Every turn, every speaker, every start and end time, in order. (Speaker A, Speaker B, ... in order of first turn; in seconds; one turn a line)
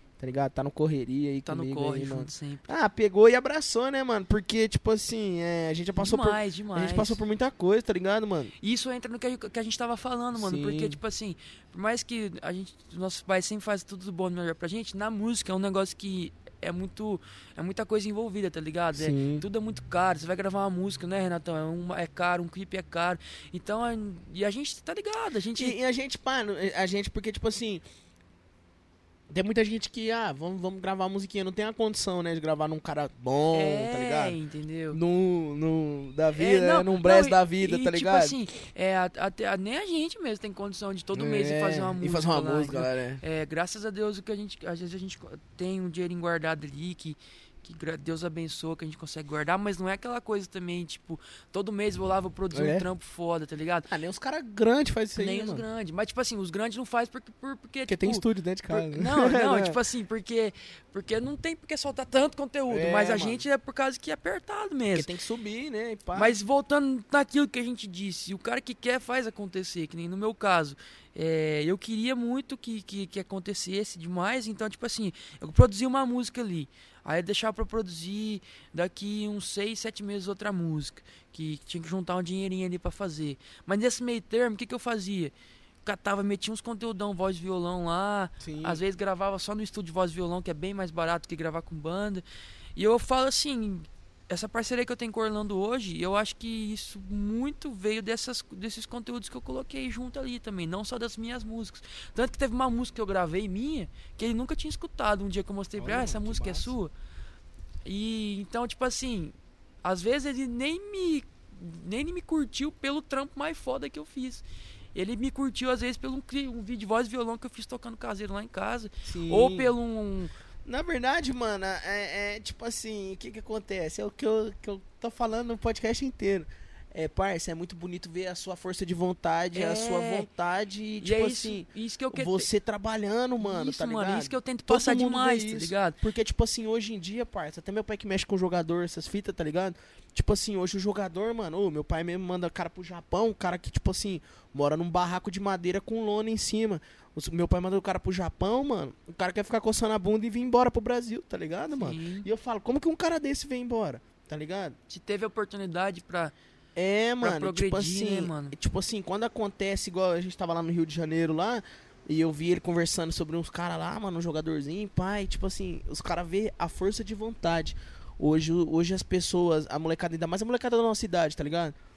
Speaker A: 0.2-8.5
Speaker B: 1.5-2.7
Speaker B: 6.0-7.2
Speaker B: 8.6-25.8
Speaker A: 10.3-11.0
Speaker A: 18.9-19.4
Speaker A: 25.6-27.8
Speaker A: 29.3-34.4
Speaker B: 33.5-35.0
Speaker A: 34.9-38.4
Speaker B: 36.3-53.9
Speaker A: 41.1-43.2
Speaker A: 52.5-52.9
Speaker A: 53.9-55.6
Speaker B: 55.2-65.1
Speaker A: 57.9-59.8
Speaker A: 62.7-63.4
Speaker A: 64.9-66.4
Speaker B: 66.2-85.3
Speaker B: 85.8-92.2
Speaker A: 88.4-88.8
Speaker B: 92.8-106.9
Speaker A: 105.8-106.7
Speaker B: 107.8-114.4
Speaker B: 115.0-120.3
Speaker A: 119.0-119.8
Speaker A: 120.7-154.8
Speaker B: 129.5-130.3
Speaker B: 131.0-132.5
Speaker B: 133.4-136.0
Speaker B: 151.7-152.3
Speaker B: 154.9-156.3
Speaker A: 156.8-171.8
Speaker B: 157.2-158.6